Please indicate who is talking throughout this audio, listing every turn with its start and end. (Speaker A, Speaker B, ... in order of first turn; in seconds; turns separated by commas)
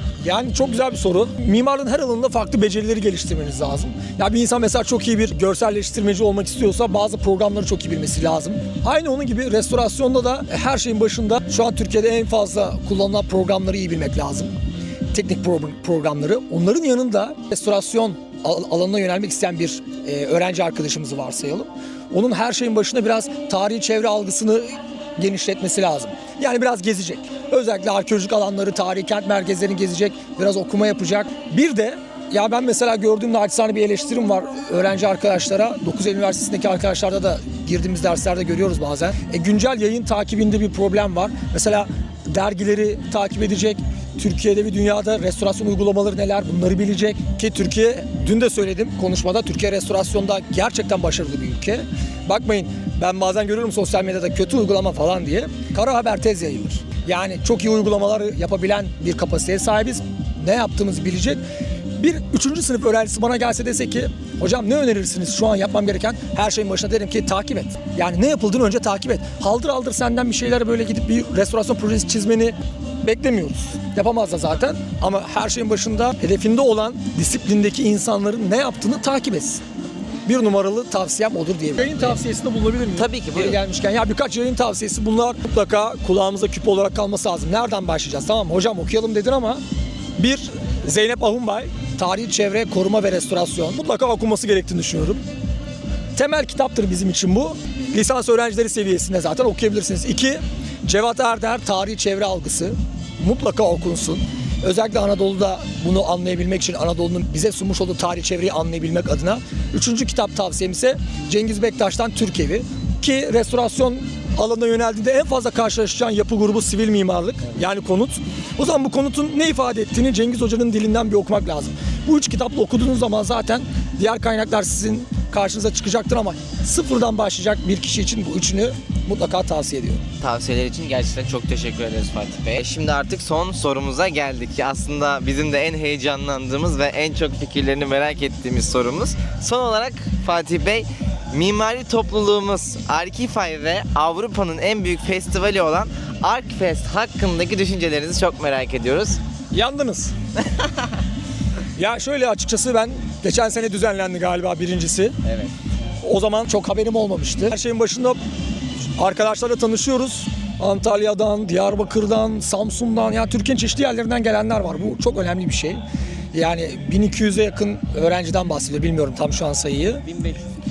Speaker A: 0.2-14.5, Speaker A: 15.1-61.4, Speaker A: 62.0-79.6, Speaker A: 80.2-89.6, Speaker B: 83.0-83.6, Speaker A: 90.2-95.2, Speaker A: 96.2-130.0, Speaker B: 130.2-149.2, Speaker A: 149.5-150.1, Speaker A: 151.8-155.1, Speaker B: 155.2-155.5, Speaker A: 156.0-158.2, Speaker A: 159.0-165.8, Speaker A: 166.3-170.0